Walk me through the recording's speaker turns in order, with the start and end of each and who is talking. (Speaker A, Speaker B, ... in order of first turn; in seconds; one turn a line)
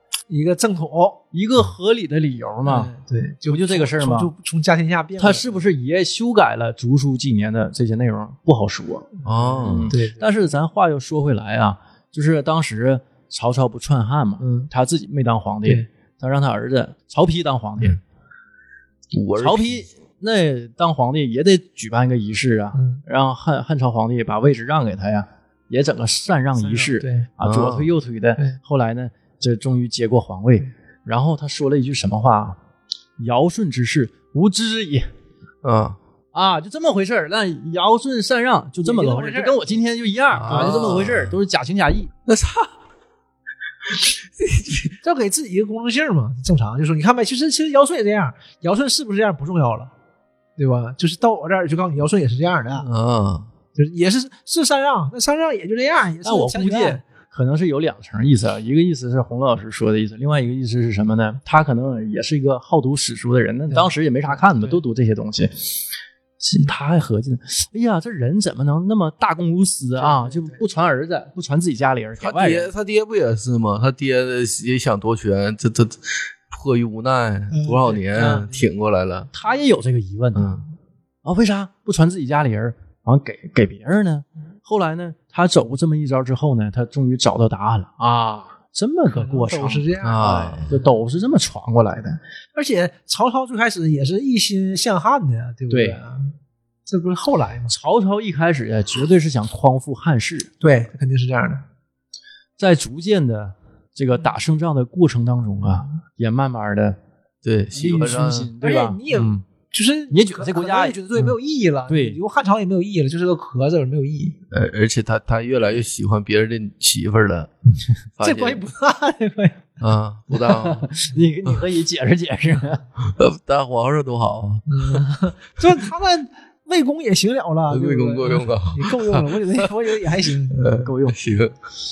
Speaker A: 0.3-1.2
Speaker B: 1.3-2.9
Speaker A: 2.6-5.5
Speaker B: 3.5-4.3
Speaker B: 5.2-9.1
Speaker A: 9.2-10.3
Speaker C: 9.2-9.9
Speaker B: 9.6-18.0
Speaker A: 14.4-14.7
Speaker C: 19.1-19.9
Speaker B: 19.4-32.6
Speaker A: 22.7-23.0
Speaker A: 26.6-27.3
Speaker C: 27.4-27.9
Speaker B: 33.2-35.1
Speaker C: 35.6-36.0
Speaker B: 36.3-42.1
Speaker A: 38.8-39.7
Speaker C: 40.3-41.4
Speaker C: 42.3-42.7
Speaker C: 44.4-45.0
Speaker A: 45.0-49.9
Speaker A: 50.6-52.9
Speaker C: 52.8-53.5
Speaker A: 53.8-57.0
Speaker B: 56.2-65.8
Speaker B: 66.4-72.7
Speaker A: 70.0-70.6
Speaker C: 72.2-79.3
Speaker A: 77.6-78.0
Speaker B: 78.1-78.5
Speaker B: 79.3-80.6
Speaker C: 80.3-80.7
Speaker B: 81.2-92.2
Speaker A: 89.1-90.9
Speaker C: 90.0-90.7
Speaker A: 92.5-96.3
Speaker B: 95.7-96.0
Speaker A: 96.9-97.7
Speaker B: 97.7-100.5
Speaker A: 100.6-101.7
Speaker B: 102.6-107.0
Speaker C: 107.4-108.5
Speaker B: 107.7-109.5
Speaker A: 108.6-114.4
Speaker B: 110.1-111.4
Speaker B: 111.9-112.2
Speaker C: 114.5-117.5
Speaker C: 118.2-118.7
Speaker A: 118.2-119.7
Speaker C: 119.8-120.9
Speaker B: 120.5-122.9
Speaker C: 123.0-125.0
Speaker A: 124.7-130.8
Speaker C: 127.7-129.7
Speaker C: 130.5-131.6
Speaker B: 130.8-131.2